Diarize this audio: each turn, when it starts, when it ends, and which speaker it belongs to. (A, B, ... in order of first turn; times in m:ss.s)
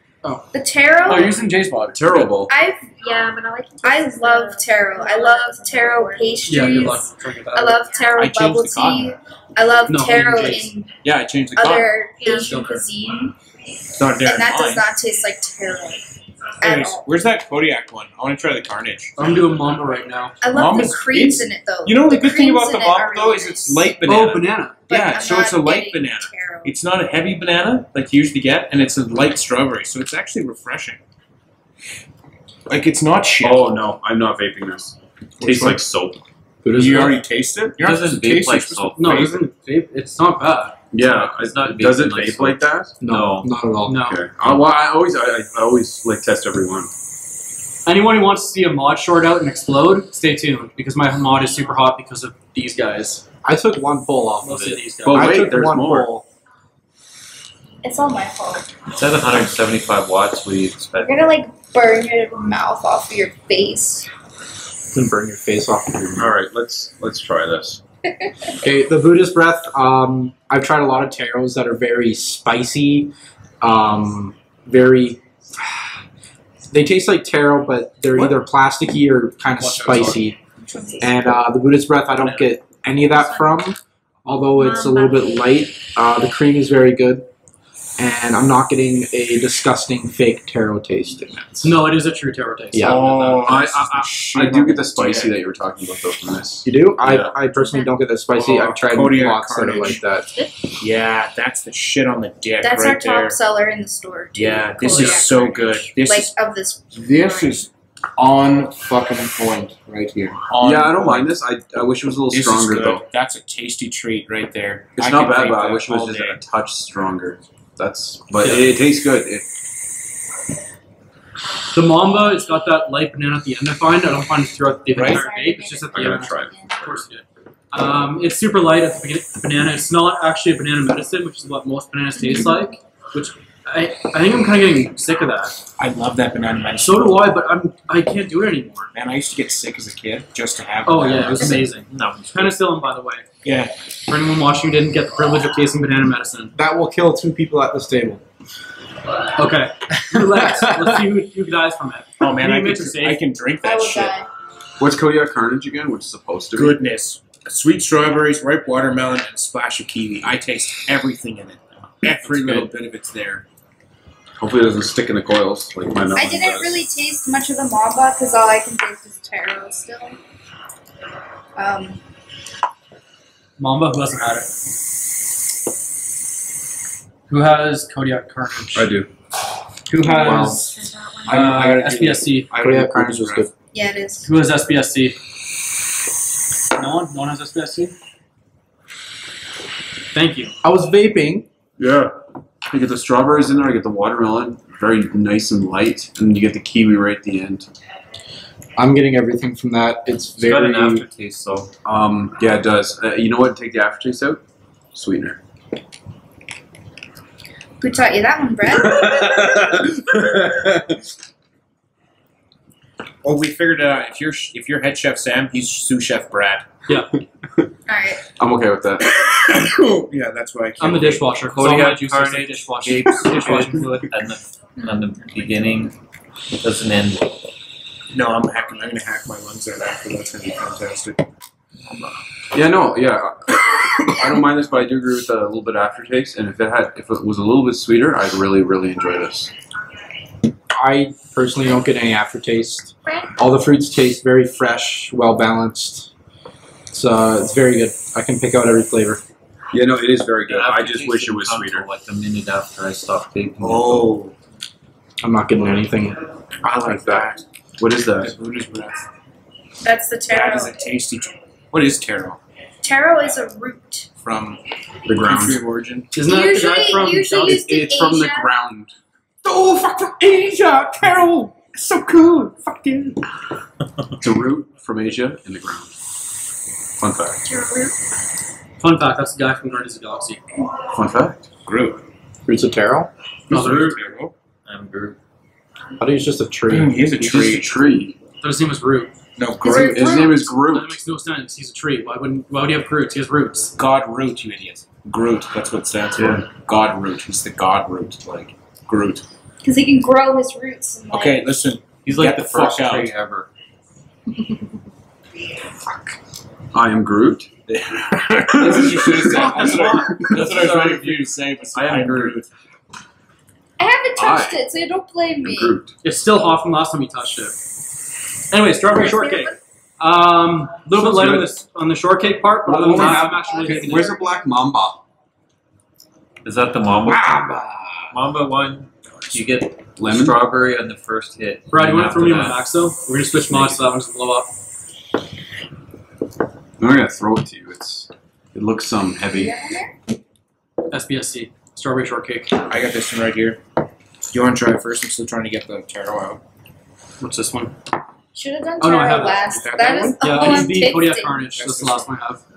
0:00.2-0:00.5 A
0:00.5-0:01.4 B
0:01.0-0:02.3 A
0:01.9-0:02.5 C
0:02.5-0:02.9 B
0:02.9-0:06.9 D
0:03.8-0:11.0 B
0:06.5-0:07.8 A
0:07.7-0:08.2 D
0:08.2-0:09.1 E
0:09.9-0:10.7 A
0:11.0-0:11.9 E
0:11.6-0:13.3 B
0:12.2-0:12.5 D
0:12.2-0:12.8 A
0:14.0-0:14.9 E
0:14.2-0:16.0 B
0:16.6-0:17.0 B
0:16.6-0:19.1 E
0:19.2-0:20.4 A
0:20.4-0:23.9 B
0:20.5-0:31.0 E
0:24.1-0:24.7 A
0:24.9-0:26.7 B
0:32.7-0:33.8 E
0:33.4-0:36.3 C
0:35.4-0:35.8 F
0:36.6-0:37.2 F
0:36.7-0:39.4 E
0:37.8-0:39.4 G
0:39.0-0:40.8 A
0:40.9-0:43.0 C
0:41.0-0:43.5 G
0:43.0-0:44.0 F
0:43.8-0:44.2 A
0:44.0-0:46.9 C
0:47.8-0:53.2 A
0:53.4-0:56.2 F
0:54.4-0:55.5 A
0:55.0-0:56.1 C
0:57.8-0:58.7 B
0:58.9-1:01.2 G
1:01.0-1:04.1 B
1:04.9-1:06.3 F
1:06.1-1:07.8 C
1:08.1-1:08.5 B
1:08.6-1:15.9 F
1:16.7-1:20.4 F
1:19.6-1:20.2 A
1:20.6-1:21.2 B
1:21.0-1:27.3 F
1:22.2-1:22.5 A
1:23.1-1:23.5 D
1:24.5-1:25.5 D
1:28.0-1:31.7 F
1:31.6-1:33.6 A
1:32.7-1:33.1 F
1:32.8-1:35.4 E
1:33.4-1:37.3 C
1:36.6-1:40.3 F
1:37.4-1:38.0 D
1:38.3-1:40.0 E
1:40.8-1:43.4 E
1:42.6-1:46.8 B
1:44.3-1:46.3 E
1:44.8-1:45.7 D
1:46.9-1:51.3 E
1:47.2-1:47.6 D
1:50.6-1:53.0 C
1:52.3-1:56.4 E
1:55.0-1:59.5 C
1:58.4-1:58.7 A
2:01.7-2:15.6 A
2:04.9-2:05.2 E
2:04.9-2:06.8 B
2:05.9-2:07.0 C
2:12.2-2:12.6 D
2:15.8-2:17.2 E
2:16.8-2:18.9 A
2:18.9-2:21.7 E
2:20.8-2:23.2 A
2:21.9-2:22.6 G
2:23.4-2:23.7 E
2:24.1-2:26.5 A
2:26.5-2:28.2 F
2:29.3-2:33.2 A
2:30.2-2:30.9 F
2:32.2-2:34.1 E
2:33.6-2:34.3 B
2:34.8-2:36.8 C
2:36.5-2:43.4 E
2:44.4-2:46.8 C
2:46.1-2:50.2 B
2:51.6-2:52.0 B
2:53.6-2:54.5 A
2:57.3-2:59.0 A
2:58.7-2:59.1 C
2:59.9-3:00.6 A
3:00.0-3:00.7 F
3:00.0-3:01.5 D
3:01.3-3:03.5 E
3:01.3-3:02.5 A
3:01.3-3:03.5 F
3:03.7-3:04.3 B
3:04.2-3:05.2 A
3:06.7-3:07.9 A
3:10.1-3:10.5 A
3:10.6-3:11.4 F
3:11.8-3:12.1 C
3:12.6-3:17.7 C
3:18.8-3:21.0 F
3:20.4-3:21.7 G
3:21.8-3:24.4 C
3:24.9-3:25.4 C
3:27.8-3:29.4 B
3:28.9-3:31.0 C
3:33.2-3:36.7 E
3:37.9-3:38.2 B
3:38.4-3:39.1 C
3:39.2-3:41.4 E
3:40.8-3:44.1 A
3:41.4-3:46.0 G
3:46.6-3:47.4 G
3:48.1-3:51.2 E
3:52.5-3:59.5 C
4:00.7-4:06.1 F
4:03.0-4:03.3 D
4:06.9-4:09.2 F
4:09.7-4:11.9 C
4:10.4-4:14.2 G
4:13.6-4:14.3 E
4:15.2-4:16.2 F
4:16.6-4:17.4 E
4:16.8-4:17.3 F
4:17.8-4:18.3 C
4:18.2-4:19.0 E
4:19.8-4:20.8 B
4:20.3-4:22.4 E
4:22.8-4:24.1 B
4:24.2-4:26.1 E
4:25.0-4:25.6 C
4:26.1-4:27.6 A
4:26.2-4:28.5 B
4:27.4-4:28.9 C
4:29.4-4:33.2 E
4:34.2-4:35.9 C
4:37.0-4:37.5 C
4:37.4-4:37.9 D
4:38.8-4:40.4 A
4:40.8-4:41.4 C
4:41.6-4:42.0 E
4:42.4-4:43.1 F
4:43.5-4:44.0 A
4:43.5-4:44.3 E
4:44.6-4:45.2 G
4:46.0-4:47.0 F
4:46.7-4:47.7 E
4:47.0-4:48.2 C
4:48.4-4:49.1 A
4:49.4-4:50.3 E
4:49.6-4:50.5 B
4:49.7-4:51.0 C
4:50.6-4:53.7 A
4:53.8-4:59.2 E
4:56.2-4:56.4 C
4:59.6-5:01.5 B
5:01.1-5:03.1 E
5:02.0-5:03.5 G
5:06.7-5:07.5 C
5:07.7-5:12.5 E
5:08.5-5:10.6 C
5:09.3-5:10.5 A
5:10.4-5:11.1 G
5:11.7-5:12.4 C
5:13.8-5:15.8 B
5:14.1-5:14.6 C
5:15.4-5:15.9 C
5:16.0-5:17.5 A
5:18.5-5:24.2 A
5:18.9-5:19.6 B
5:20.9-5:21.5 C
5:22.6-5:25.0 C
5:22.9-5:24.4 B
5:26.4-5:27.5 G
5:27.0-5:28.1 F
5:28.1-5:32.6 G
5:30.0-5:30.4 C
5:31.7-5:34.5 A
5:33.4-5:33.8 G
5:36.8-5:39.5 C
5:39.3-5:39.9 B
5:40.9-5:42.6 A
5:42.7-5:43.6 E
5:44.3-5:46.4 E
5:47.2-5:47.7 A
5:48.3-5:51.4 B
5:48.8-5:49.4 A
5:49.5-5:50.7 E
5:50.2-5:52.4 A
5:51.5-5:52.1 E